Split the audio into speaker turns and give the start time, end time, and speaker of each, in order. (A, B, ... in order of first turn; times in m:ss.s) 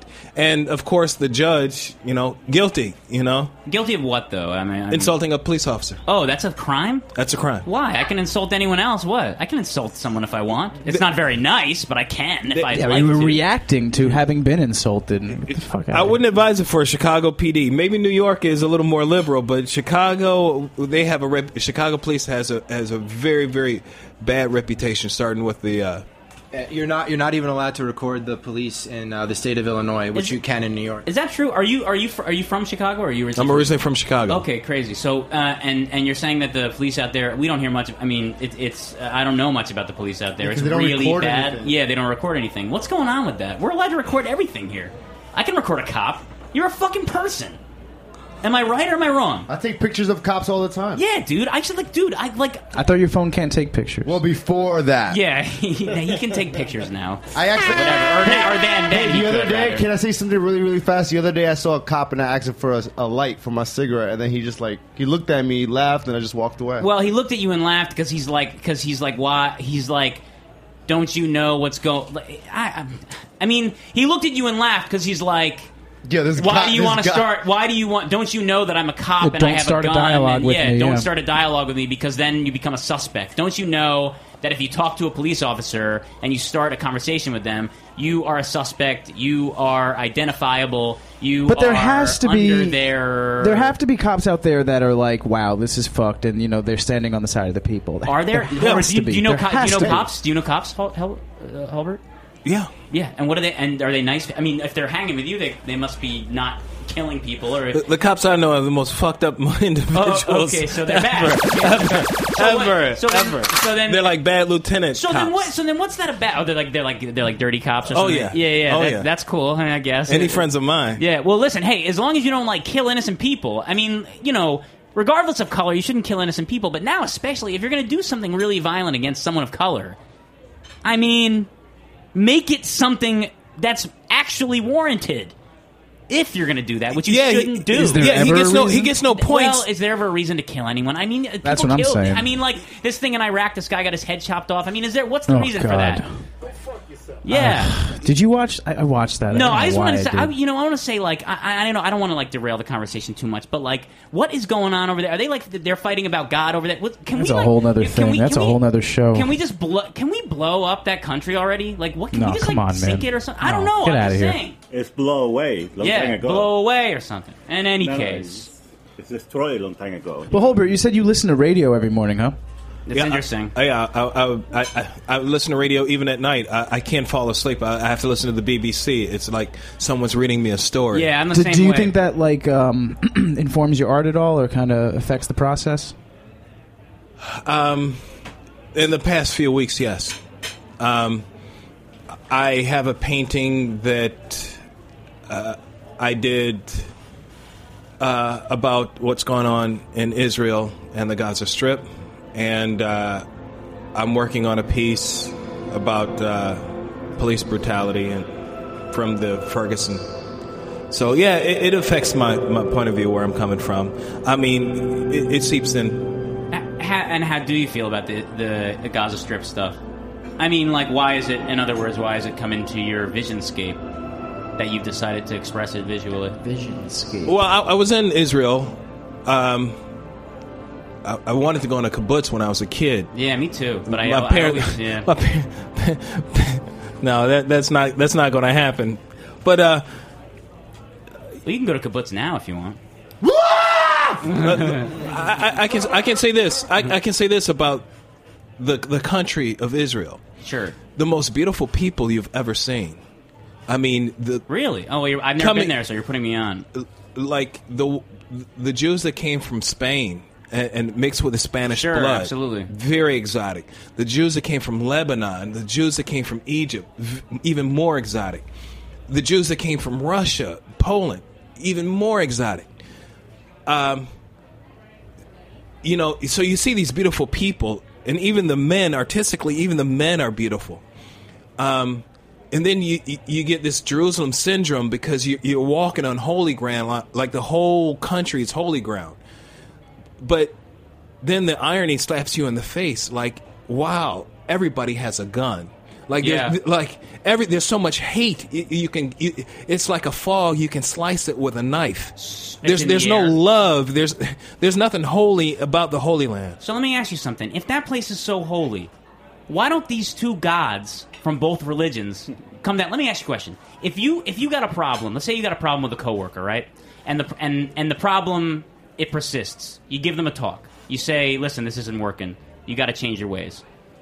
0:00.3-0:03.5 A
0:03.6-0:05.1 B
0:04.9-0:06.0 A
0:06.1-0:07.0 B
0:07.1-0:07.6 A
0:07.6-0:13.4 B
0:12.5-0:13.2 A
0:12.7-0:16.2 C
0:15.4-0:26.0 A
0:26.5-0:31.1 D
0:31.0-0:33.8 B
0:33.4-0:34.4 A
0:34.3-0:47.6 B
0:40.4-0:41.7 E
0:48.4-0:49.5 B
0:49.5-0:51.0 E
0:50.9-0:52.6 B
0:52.7-0:54.2 C
0:54.0-0:55.2 E
0:55.1-0:59.8 B
0:57.3-1:06.9 E
1:06.8-1:10.2 B
1:10.9-1:15.7 B
1:16.0-1:17.3 E
1:16.4-1:33.7 B
1:19.2-1:21.1 C
1:31.4-1:40.1 C
1:38.0-1:42.0 B
1:42.4-1:42.7 A
1:42.9-1:47.8 B
1:47.7-1:55.5 A
1:49.9-1:54.2 B
1:55.0-2:00.4 B
1:57.9-1:59.1 A
2:00.1-2:01.0 A
2:01.0-2:10.0 B
2:10.8-2:11.5 B
2:12.1-2:15.3 B
2:16.1-2:18.1 B
2:17.0-2:19.7 A
2:17.7-2:18.9 C
2:19.1-2:26.0 B
2:21.4-2:22.3 C
2:25.3-2:26.1 C
2:27.2-2:27.7 B
2:27.3-2:30.3 C
2:29.3-2:38.6 B
2:37.1-2:39.3 C
2:39.1-2:44.6 B
2:42.1-2:44.4 C
2:44.7-2:46.5 F
2:45.8-2:48.5 B
2:47.8-2:50.6 F
2:50.3-2:52.4 C
2:52.9-2:53.5 B
2:52.9-3:01.1 A
3:00.9-3:01.9 B
3:01.3-3:05.9 C
3:07.2-3:08.0 A
3:08.7-3:10.2 A
3:10.8-3:11.2 A
3:12.3-3:14.6 A
3:15.3-3:16.9 A
3:18.0-3:23.2 A
3:23.9-3:26.6 A
3:27.2-3:28.3 A
3:28.9-3:30.0 A
3:30.9-3:36.0 A
3:36.5-3:39.8 B
3:40.4-3:43.8 B
3:44.6-3:46.4 B
3:46.4-3:47.3 C
3:47.2-3:49.8 A
3:51.0-3:53.1 A
3:53.1-3:55.1 B
3:53.9-3:59.8 A
4:01.4-4:02.8 B
4:04.2-4:04.9 B
4:04.4-4:07.8 A
4:08.6-4:10.2 A
4:10.4-4:10.8 B
4:11.0-4:13.0 A
4:13.7-4:14.4 A
4:14.5-4:16.6 B
4:15.4-4:15.7 A
4:16.7-4:28.4 A
4:21.7-4:22.7 B
4:29.1-4:32.6 A
4:33.7-4:34.1 A
4:35.8-4:40.8 A
4:41.6-4:49.2 A
4:50.2-4:50.5 A
4:51.2-5:06.6 A
4:56.2-4:56.5 B
5:02.2-5:03.4 B
5:06.6-5:08.9 B
5:09.5-5:23.6 B